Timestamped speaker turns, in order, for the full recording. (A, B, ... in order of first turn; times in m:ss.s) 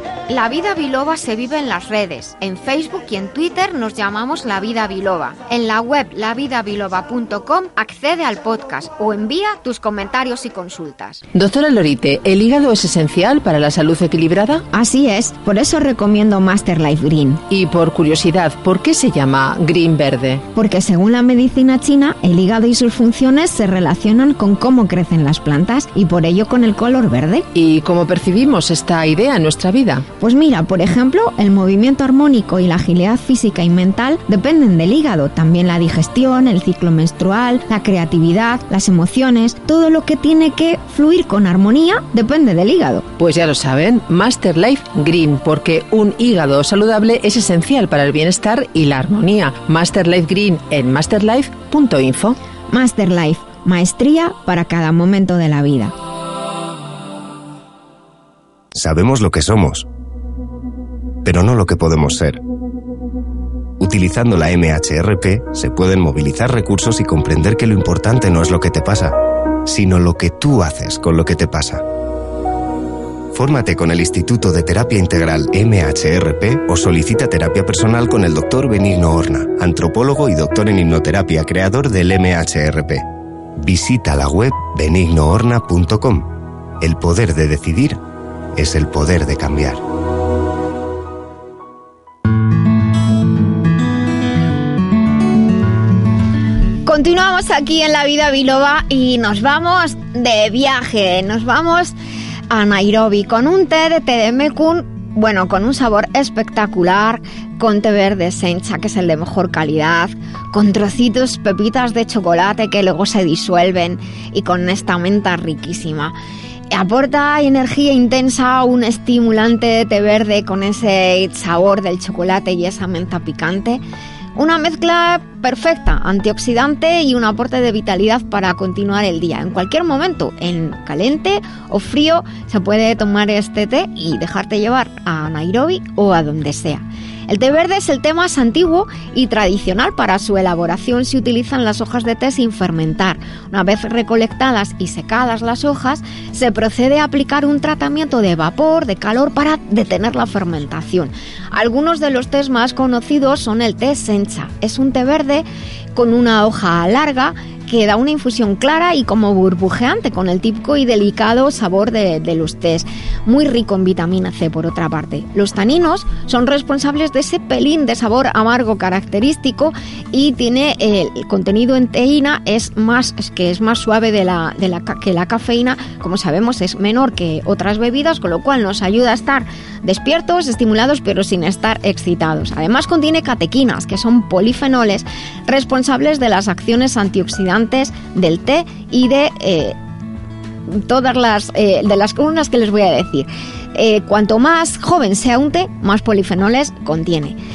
0:00.3-0:11.2 A
0:11.3-0:14.6 B
0:14.7-0:17.4 A
0:17.5-0:20.4 B
0:20.5-0:27.5 A
0:27.6-0:30.0 B
0:30.2-0:43.1 A
0:43.2-0:52.4 B
0:52.7-0:55.9 A
0:58.8-0:59.9 C
1:01.2-1:02.4 C
1:03.8-1:11.8 C
1:13.3-1:23.0 C
1:23.6-1:28.0 C
1:28.6-1:29.8 C
1:36.8-1:42.0 A
1:42.5-1:56.2 A
1:56.7-2:03.8 A
2:04.4-3:09.8 A
3:10.7-3:17.4 A